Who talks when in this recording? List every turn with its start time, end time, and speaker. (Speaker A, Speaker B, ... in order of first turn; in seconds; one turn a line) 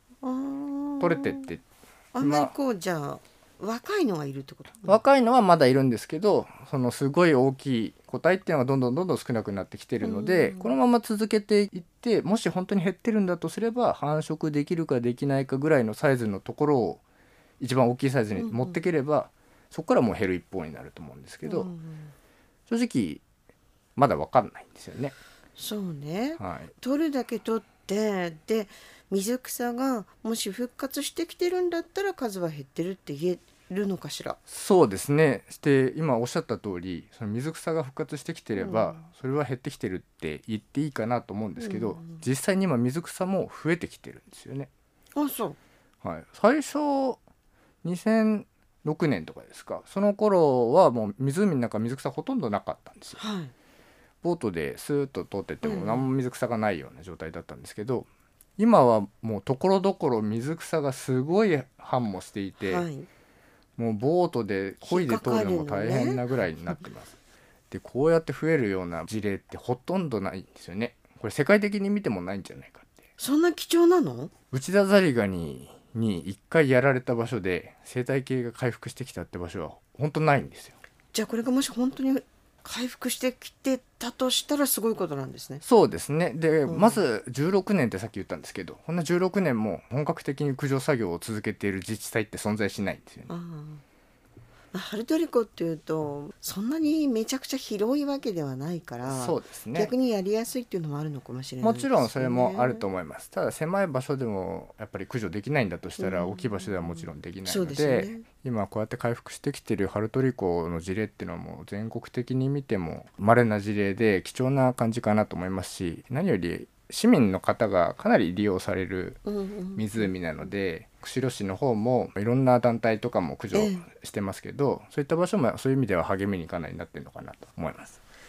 Speaker A: 0.2-1.4
Speaker B: 1.0-1.6
Speaker A: 2.1-5.0
Speaker B: 2.2-2.5
Speaker B: 4.8-17.0
Speaker A: 10.0-10.7
Speaker B: 17.6-21.7
Speaker A: 18.3-18.8
Speaker A: 21.4-22.1
Speaker B: 22.7-23.2
Speaker B: 23.9-25.1
Speaker A: 25.6-34.4
Speaker B: 26.4-26.7
Speaker B: 34.5-44.7
Speaker A: 38.6-39.0
Speaker A: 41.6-42.2
Speaker A: 45.1-45.6
Speaker B: 46.0-47.2
Speaker B: 47.8-53.2
Speaker A: 53.2-53.5
Speaker B: 54.2-62.9
Speaker A: 55.6-56.1
Speaker A: 62.6-63.1
Speaker B: 63.8-67.2
Speaker A: 64.8-66.2
Speaker B: 67.7-72.9
Speaker A: 73.2-74.3
Speaker B: 74.5-80.8
Speaker A: 81.1-85.6
Speaker B: 85.6-93.3
Speaker A: 86.7-87.0
Speaker A: 93.3-93.8
Speaker A: 94.7-102.8
Speaker B: 99.0-99.9
Speaker B: 101.6-119.2
Speaker A: 106.0-108.2
Speaker A: 119.2-120.1
Speaker B: 119.8-128.0
Speaker A: 123.5-123.9